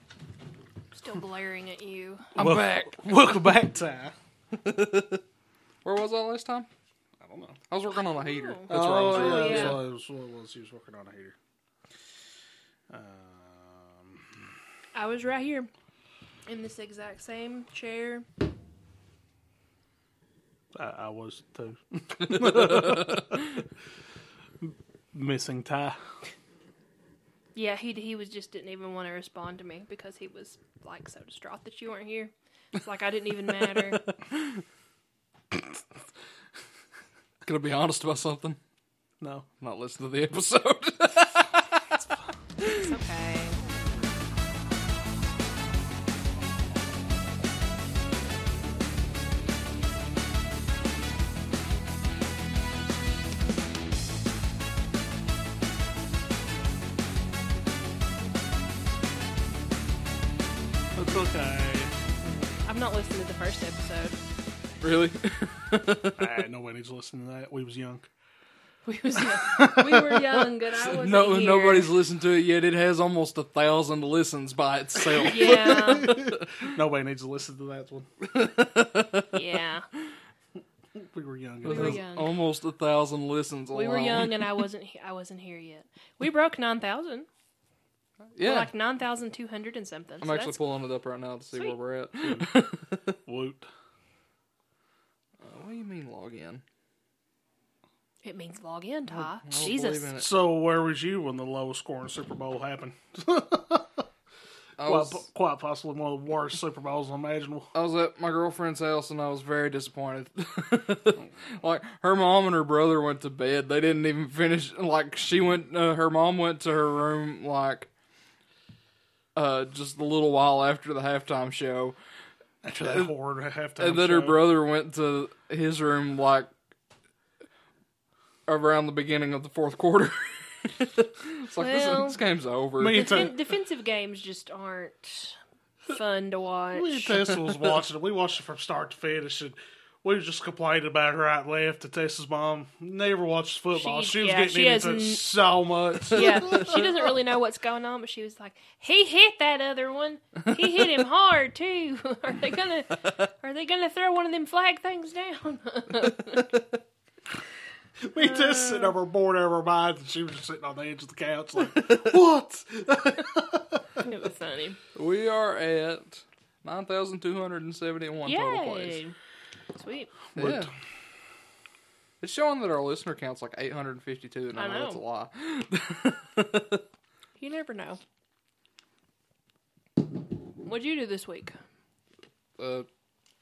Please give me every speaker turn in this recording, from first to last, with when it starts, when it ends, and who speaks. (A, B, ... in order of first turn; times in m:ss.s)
0:00.9-0:02.3 A
0:02.3-0:03.3 B
0:02.3-0:04.1 C
0:04.5-0:05.2 B
0:05.8-0:06.7 B
0:07.2-0:07.6 C
0:07.7-0:09.8 B
0:07.9-0:09.8 A
0:08.7-0:11.4 C
0:12.9-0:14.4 C
0:14.9-0:15.7 A
0:16.4-0:18.3 A
0:20.7-0:23.4 C
0:22.3-0:23.6 B
0:24.6-0:26.0 C
0:27.5-0:34.0 A
0:33.7-0:34.6 B
0:37.4-0:38.6 B
0:39.2-0:39.5 C
0:39.6-0:41.9 B
0:42.6-0:42.9 B
0:42.7-0:43.6 A
1:01.0-1:02.0 C
1:02.6-1:04.2 A
1:04.8-1:06.3 B
1:06.2-1:08.1 C
1:08.8-1:12.0 A
1:09.4-1:10.4 C
1:10.9-1:16.4 B
1:15.0-1:18.1 C
1:15.3-1:16.2 A
1:18.2-1:19.3 B
1:19.3-1:19.9 A
1:21.0-1:22.0 C
1:21.6-1:24.6 B
1:21.7-1:22.3 A
1:23.7-1:27.3 A
1:28.3-1:28.7 B
1:28.4-1:30.6 A
1:30.2-1:33.2 B
1:32.2-1:32.5 C
1:33.3-1:33.7 C
1:35.4-1:36.6 B
1:38.2-1:40.1 A
1:39.1-1:40.3 B
1:40.2-1:44.0 C
1:44.8-1:45.2 B
1:44.8-1:47.7 C
1:47.7-1:57.9 B
1:59.3-2:02.0 B
2:02.6-2:04.4 C
2:02.8-2:03.1 B
2:03.8-2:06.5 B
2:08.4-2:13.2 B
2:11.6-2:12.2 A
2:12.8-2:13.4 C
2:12.9-2:17.3 A
2:16.7-2:27.1 C
2:23.7-2:25.4 A
2:26.1-2:36.5 A
2:38.0-2:44.0 C
2:38.2-2:38.9 A
2:41.7-2:42.1 B
2:44.0-2:44.8 A
2:44.9-2:49.0 B
2:48.2-2:49.2 A
2:49.7-2:50.1 A
2:50.3-2:50.7 C
2:50.3-2:50.7 B
2:52.2-2:56.8 B
2:54.5-2:55.0 A
2:57.4-2:58.0 A
3:00.6-3:01.6 A
3:02.6-3:02.9 B